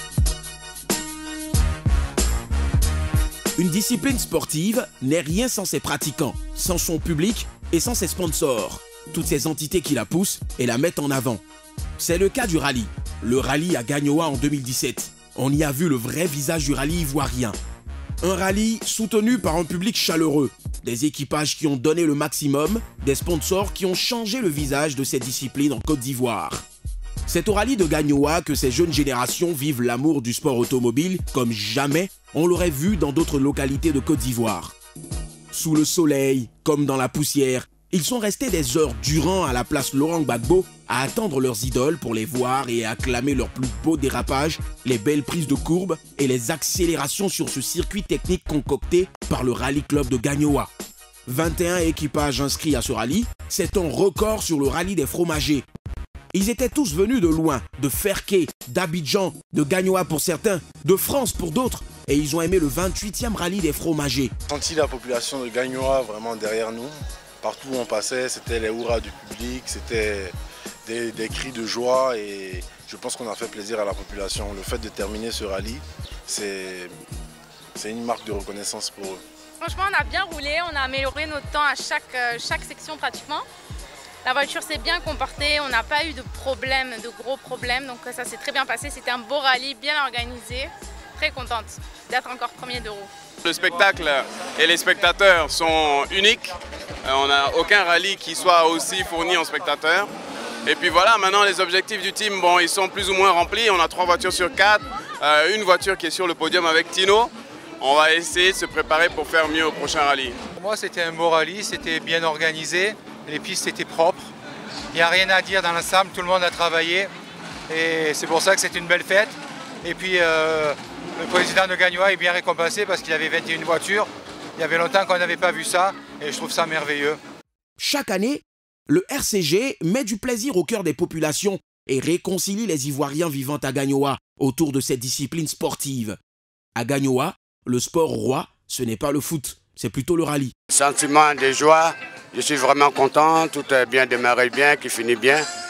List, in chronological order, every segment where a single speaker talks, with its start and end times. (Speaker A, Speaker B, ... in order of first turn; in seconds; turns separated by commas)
Speaker A: 3.6-11.4, Speaker A: 12.0-17.6, Speaker A: 18.2-26.6, Speaker A: 27.3-34.7, Speaker A: 35.5-50.7, Speaker A: 51.3-55.6, Speaker A: 56.3-64.3, Speaker B: 64.5-70.3, Speaker B: 70.8-76.9, Speaker B: 77.7-79.2, Speaker C: 79.6-83.4, Speaker C: 84.2-93.1, Speaker D: 93.4-100.1, Speaker D: 100.6-110.4, Speaker E: 110.5-114.3, Speaker E: 114.9-117.1, Speaker E: 117.7-127.2, Speaker A: 127.8-136.2, Speaker A: 136.8-140.5, Speaker F: 140.7-145.4